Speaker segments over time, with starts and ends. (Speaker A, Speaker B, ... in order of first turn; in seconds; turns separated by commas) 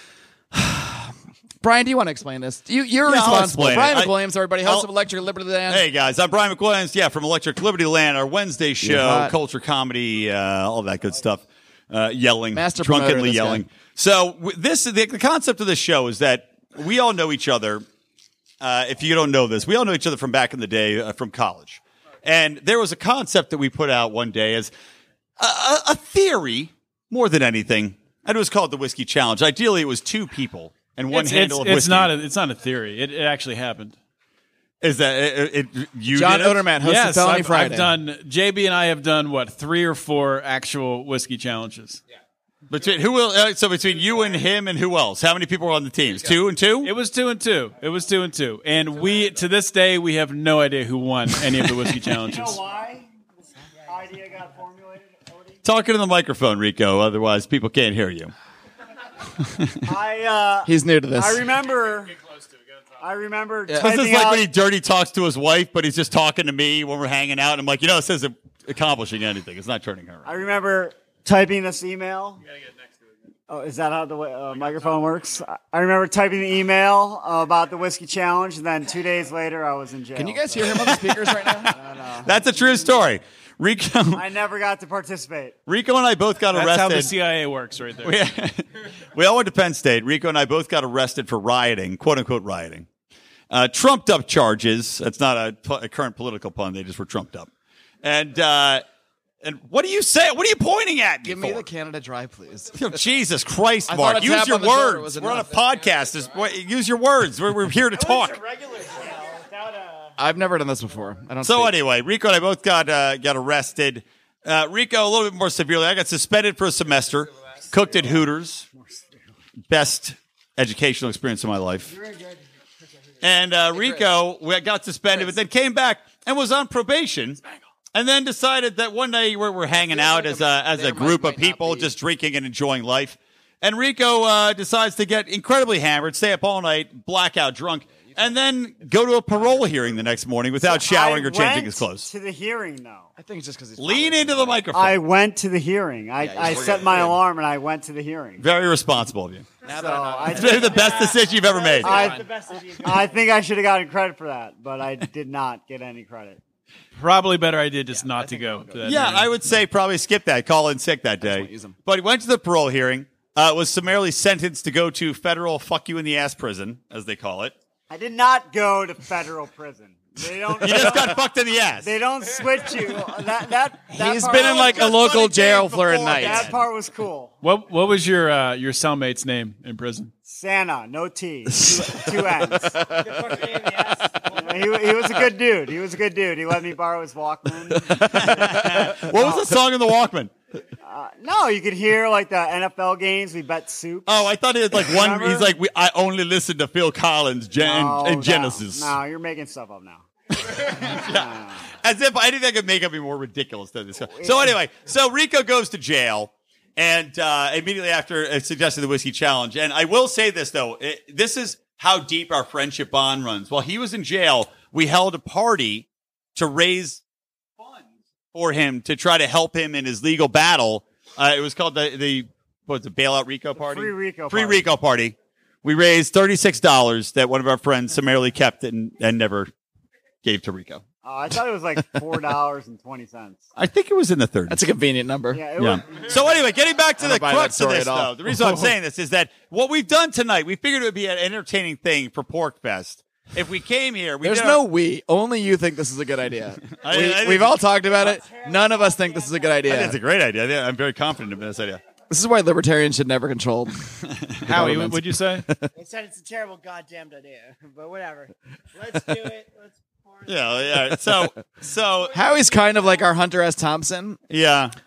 Speaker A: 0.5-5.8, Speaker B: 3.0-4.1, Speaker B: 5.7-17.8, Speaker A: 8.8-9.3, Speaker A: 12.5-13.6, Speaker B: 18.6-24.7, Speaker B: 25.4-32.1, Speaker C: 31.1-34.0, Speaker B: 34.8-36.6, Speaker A: 36.1-37.9, Speaker C: 36.8-42.0, Speaker B: 42.7-46.9, Speaker C: 46.8-52.6, Speaker D: 52.3-53.1, Speaker D: 53.9-55.6, Speaker B: 55.6-58.3, Speaker D: 59.9-62.1, Speaker A: 60.6-61.4, Speaker D: 63.0-64.4, Speaker B: 63.8-70.3, Speaker D: 70.2-72.4, Speaker D: 73.5-80.9, Speaker A: 80.2-81.8, Speaker D: 81.7-82.3, Speaker B: 82.2-84.2, Speaker D: 84.1-85.5, Speaker B: 85.7-87.1, Speaker C: 86.5-88.2, Speaker B: 88.0-92.8, Speaker B: 93.5-97.5, Speaker B: 98.0-98.8, Speaker B: 99.4-101.6, Speaker A: 101.2-102.8, Speaker B: 102.8-108.4, Speaker A: 103.9-105.5, Speaker E: 108.6-109.5, Speaker D: 109.2-109.8, Speaker A: 110.2-111.7, Speaker B: 111.4-118.7, Speaker B: 119.7-121.9, Speaker E: 122.0-122.3, Speaker B: 123.2-127.4, Speaker A: 123.7-124.0, Speaker B: 127.9-142.1, Speaker A: 129.9-131.9, Speaker D: 140.6-143.1, Speaker A: 143.2-144.6, Speaker B: 143.8-145.0, Speaker D: 144.7-148.4, Speaker A: 146.2-147.2, Speaker B: 148.4-149.5, Speaker A: 149.6-151.2, Speaker D: 149.7-151.1, Speaker B: 150.3-152.2, Speaker E: 151.4-153.3, Speaker A: 151.8-152.2, Speaker D: 151.8-152.2, Speaker D: 152.8-156.4, Speaker C: 156.9-159.3, Speaker A: 158.1-159.2, Speaker B: 158.8-167.5, Speaker A: 161.2-161.8, Speaker D: 167.9-171.2, Speaker B: 170.6-171.9, Speaker D: 171.8-174.9, Speaker A: 173.9-176.5, Speaker B: 174.1-176.6, Speaker D: 176.1-177.3, Speaker C: 177.4-180.1, Speaker D: 180.3-182.9, Speaker A: 181.6-182.0, Speaker E: 183.2-184.2, Speaker D: 184.3-189.4, Speaker A: 187.9-188.5, Speaker B: 188.1-190.3, Speaker D: 190.8-195.5, Speaker B: 194.1-198.9, Speaker D: 197.6-200.0, Speaker B: 200.4-201.3, Speaker D: 200.9-201.6, Speaker B: 201.8-217.0, Speaker D: 204.1-204.6, Speaker B: 218.3-229.5, Speaker D: 223.6-224.6, Speaker B: 230.2-230.8, Speaker D: 231.0-233.4, Speaker B: 233.6-234.7, Speaker A: 234.5-235.4, Speaker D: 235.3-236.1, Speaker B: 235.6-244.6, Speaker A: 237.0-238.7, Speaker A: 244.2-250.0, Speaker B: 246.8-247.6, Speaker E: 248.0-249.7, Speaker B: 249.7-251.8, Speaker A: 252.1-253.8, Speaker B: 254.1-254.4, Speaker C: 254.4-255.4, Speaker A: 254.5-255.7, Speaker E: 255.7-260.7, Speaker B: 260.2-262.2, Speaker A: 262.1-264.2, Speaker E: 262.3-262.9, Speaker B: 264.3-264.7